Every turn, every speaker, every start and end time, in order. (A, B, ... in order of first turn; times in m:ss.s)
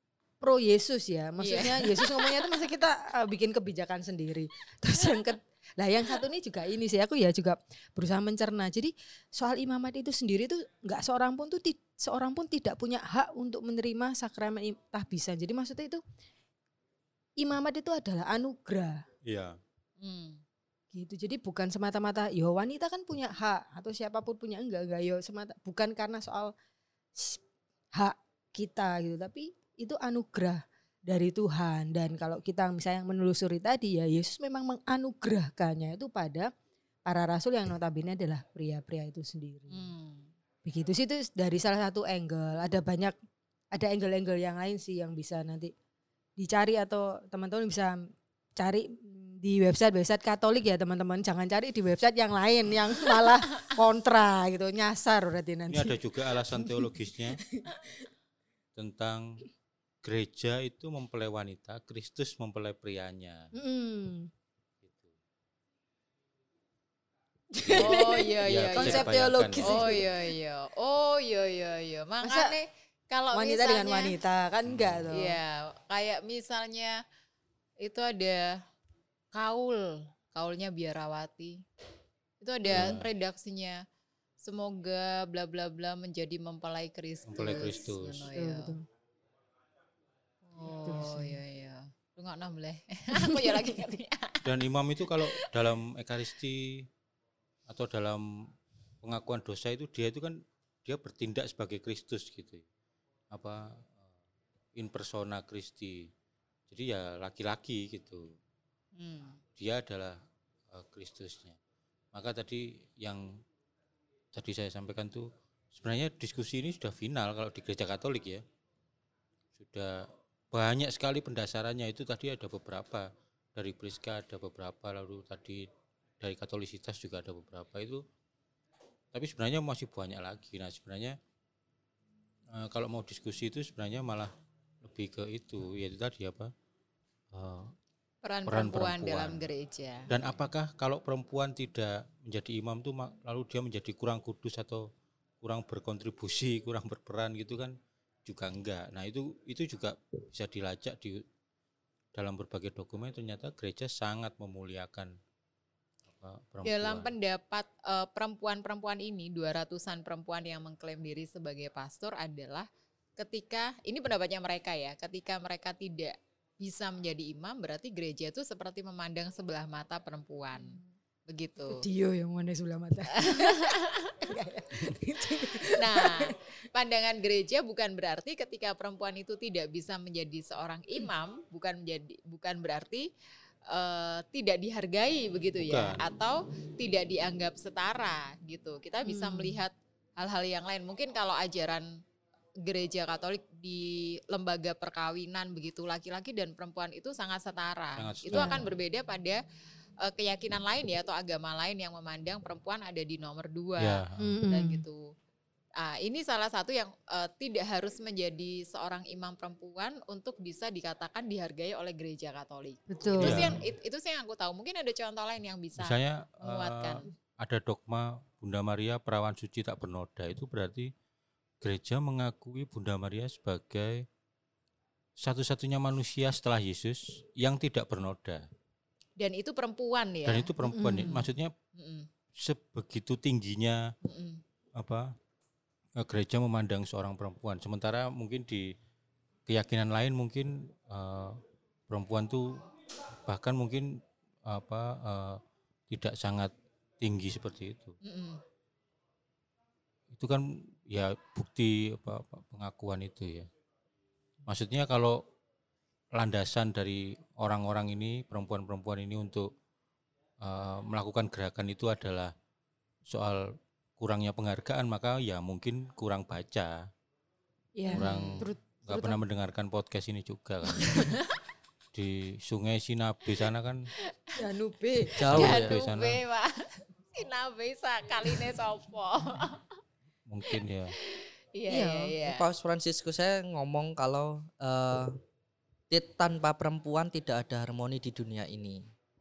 0:00.4-0:16.0 A
0:01.4-0:02.5 B
0:17.4-0:19.0 A
0:19.2-0:19.6 C
0:20.0-0:20.4 B
0:20.9-0:26.5 A
0:27.1-0:27.4 A
0:27.9-0:36.5 A
0:37.0-0:39.8 A
0:39.7-0:40.3 B
0:40.6-0:43.2 A
0:43.7-0:45.7 A
0:46.4-0:56.0 A
0:55.7-0:57.4 C
0:56.5-0:57.0 A
0:57.5-0:57.9 A
0:58.8-0:59.4 C
1:00.0-1:03.5 C
1:03.5-1:04.3 A
1:04.8-1:05.1 C
1:07.5-1:10.1 A
1:07.6-1:10.0 C
1:07.7-1:09.0 B
1:09.6-1:14.2 B
1:12.2-1:12.6 A
1:13.3-1:15.4 A
1:14.6-1:15.0 C
1:15.1-1:17.0 B
1:17.8-1:18.6 B
1:19.3-1:21.6 B
1:22.4-1:23.8 B
1:22.7-1:23.1 C
1:24.4-1:28.7 B
1:27.3-1:28.3 C
1:28.3-1:28.8 A
1:30.5-1:34.5 B
1:30.8-1:31.4 A
1:33.2-1:33.7 A
1:34.4-1:36.9 C
1:35.2-1:35.4 B
1:37.7-1:38.5 C
1:39.0-1:42.6 C
1:43.3-1:44.0 C
1:44.7-1:46.1 C
1:46.7-1:48.4 C
1:49.0-1:49.4 B
1:49.6-1:50.2 C
1:50.7-1:51.6 C
1:52.1-1:53.4 C
1:54.3-1:58.4 C
1:59.6-2:05.7 C
2:06.2-2:08.0 C
2:09.1-2:11.2 C
2:12.5-2:14.3 C
2:14.8-2:16.5 C
2:17.3-2:17.7 C
2:18.2-2:20.1 B
2:18.5-2:19.4 C
2:20.1-2:24.9 C
2:25.4-2:31.2 C
2:32.1-2:35.1 C
2:36.1-2:37.1 C
2:36.6-2:51.8 B
2:50.6-2:50.8 A
2:51.6-2:56.4 A
2:53.1-2:54.3 B
2:55.5-3:03.1 B
3:03.7-3:11.9 B
3:05.6-3:06.0 C
3:09.0-3:09.6 A
3:12.6-3:19.4 B
3:18.0-3:18.7 C
3:18.3-3:18.6 A
3:20.0-3:25.1 B
3:23.8-3:24.3 C
3:24.2-3:24.8 A
3:25.8-3:37.1 B
3:32.9-3:33.5 A
3:33.2-3:33.6 C
3:35.8-3:40.9 C
3:41.6-3:44.0 C
3:45.2-3:48.4 C
3:49.2-3:50.5 B
3:50.2-3:51.5 C
3:50.6-3:51.3 A
3:51.7-3:52.1 B
3:52.4-3:53.9 C
3:54.0-3:54.4 B
3:54.8-3:55.1 C
3:56.0-3:58.7 C
3:59.5-4:02.6 C
4:03.2-4:08.0 C
4:08.0-4:08.4 B
4:10.1-4:13.5 C
4:14.4-4:15.2 C
4:16.1-4:19.5 C
4:20.4-4:22.3 C
4:23.1-4:26.9 C
4:27.8-4:29.2 A
4:27.9-4:28.5 B
4:27.9-4:31.1 C
4:30.9-4:31.4 B
4:31.9-4:33.9 C
4:34.4-4:35.2 A
4:35.2-4:35.7 D
4:35.2-4:36.2 C
4:35.3-4:39.7 B
4:40.3-4:41.0 C
4:41.0-4:42.4 B
4:41.7-4:42.2 A
4:42.2-4:45.2 D
4:45.9-4:48.8 D